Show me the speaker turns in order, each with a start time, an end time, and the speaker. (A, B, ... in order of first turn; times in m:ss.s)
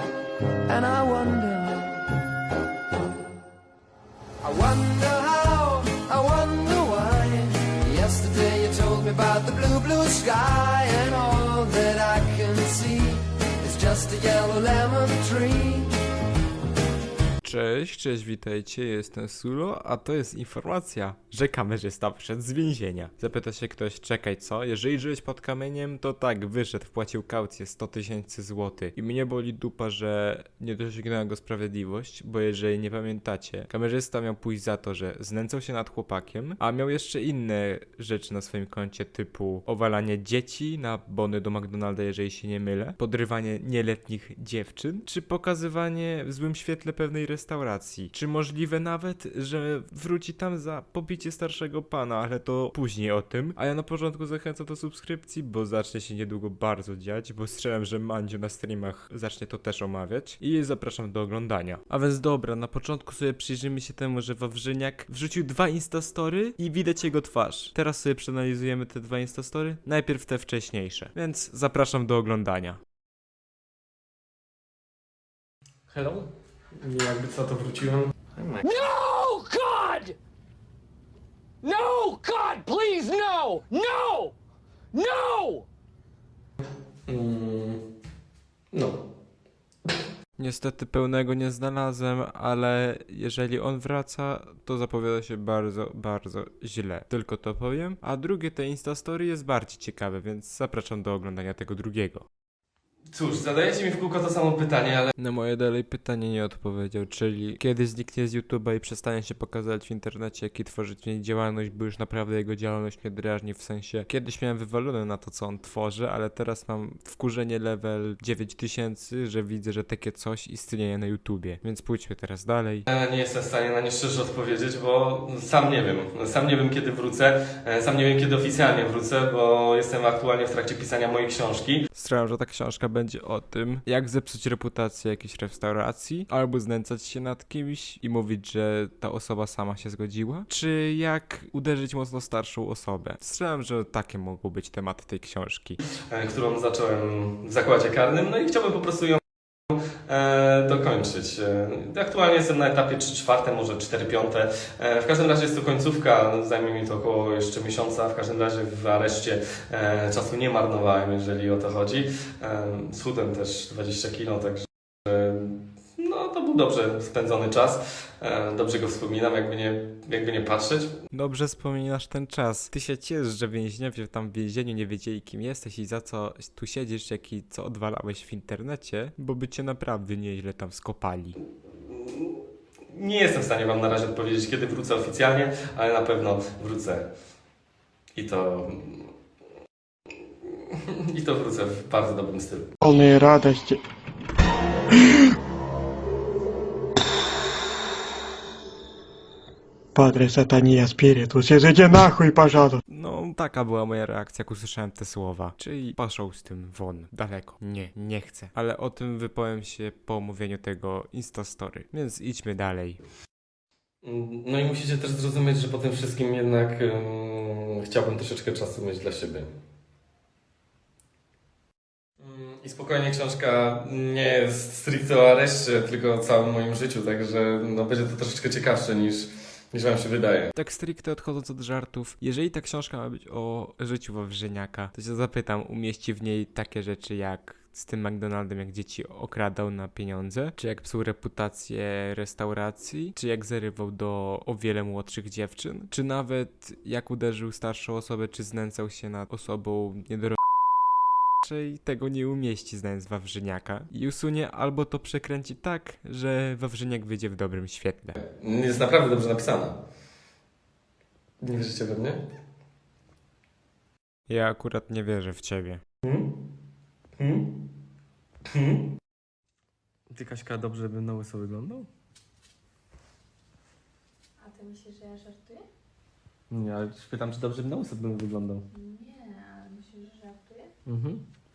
0:00.7-0:02.0 A
0:04.4-0:15.9 A
0:17.4-1:12.8 B
1:15.9-1:16.3 C
1:16.8-1:18.1 C
1:18.6-1:20.2 D
1:21.6-1:24.3 D
1:24.9-1:25.7 D
1:27.1-1:27.8 C
1:30.4-1:42.2 B
1:43.1-1:45.1 C
1:45.2-2:02.8 B
2:02.9-2:11.8 C
2:11.9-2:25.8 B
2:26.1-2:50.9 C
2:51.1-3:01.4 B
3:01.8-3:02.4 C
3:02.9-3:07.0 C
3:08.1-3:09.1 C
3:10.4-3:12.7 C
3:12.8-3:13.8 E
3:14.9-3:15.2 E
3:19.9-3:22.8 E
3:22.9-3:33.0 B
3:34.0-3:39.5 C
3:42.2-3:50.5 C
3:50.5-4:10.4 B
4:11.4-4:18.2 B
4:18.2-4:19.8 C
4:21.4-4:22.2 C
4:24.3-4:25.8 B
4:26.0-4:26.3 C
4:27.2-4:27.5 C
4:28.5-4:28.9 C
4:30.1-4:31.9 C
4:34.4-4:35.6 F
4:36.5-4:38.6 C
4:38.7-4:40.7 F
4:40.8-4:41.2 C